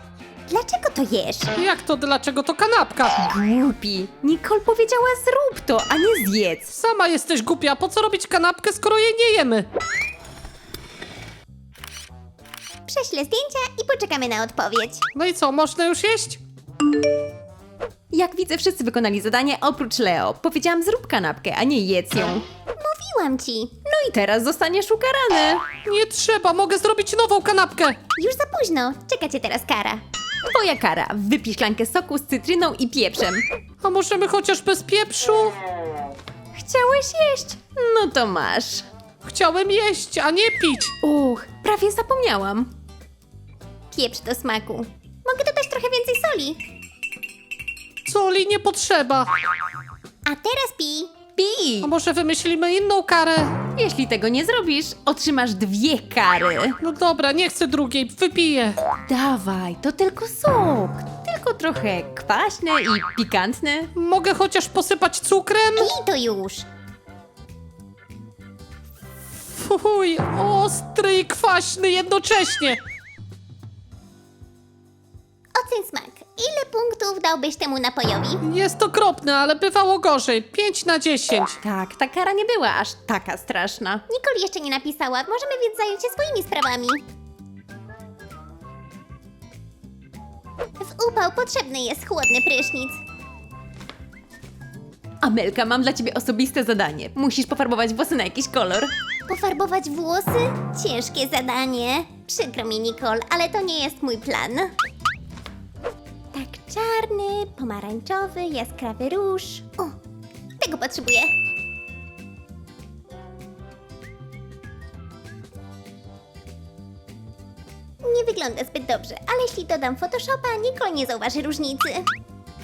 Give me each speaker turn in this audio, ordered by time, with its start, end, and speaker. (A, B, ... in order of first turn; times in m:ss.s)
0:00.5-0:01.5 A
0:01.6-0:03.1 B
0:03.2-0:06.7 C
0:06.7-0:09.7 B
0:12.8-0:15.0 A
0:15.1-0:16.4 B
0:18.1-0:22.4 C
0:22.7-0:23.9 A
0:23.9-0:25.6 C
0:25.8-0:28.0 B
0:28.2-0:30.0 A
0:30.4-0:33.4 C
0:33.8-0:35.6 B
0:36.5-0:38.9 C
0:39.2-0:40.9 B
0:41.0-0:42.7 C
0:43.9-0:46.6 A
0:48.0-0:49.3 B
0:50.2-0:51.2 A
0:51.4-0:51.9 C
0:51.8-0:53.5 B
0:53.7-0:56.8 C
0:56.8-0:58.8 B
0:59.1-1:03.9 C
1:04.0-1:05.9 B
1:05.8-1:06.6 A
1:09.5-1:12.8 B
1:15.5-1:18.4 A
1:18.4-1:21.6 B
1:21.6-1:24.0 C
1:24.1-1:27.0 A
1:30.8-1:33.0 A
1:35.2-1:38.9 C
1:39.3-1:44.7 A
1:46.3-1:50.0 A
1:50.6-1:51.3 A
1:58.0-2:02.1 A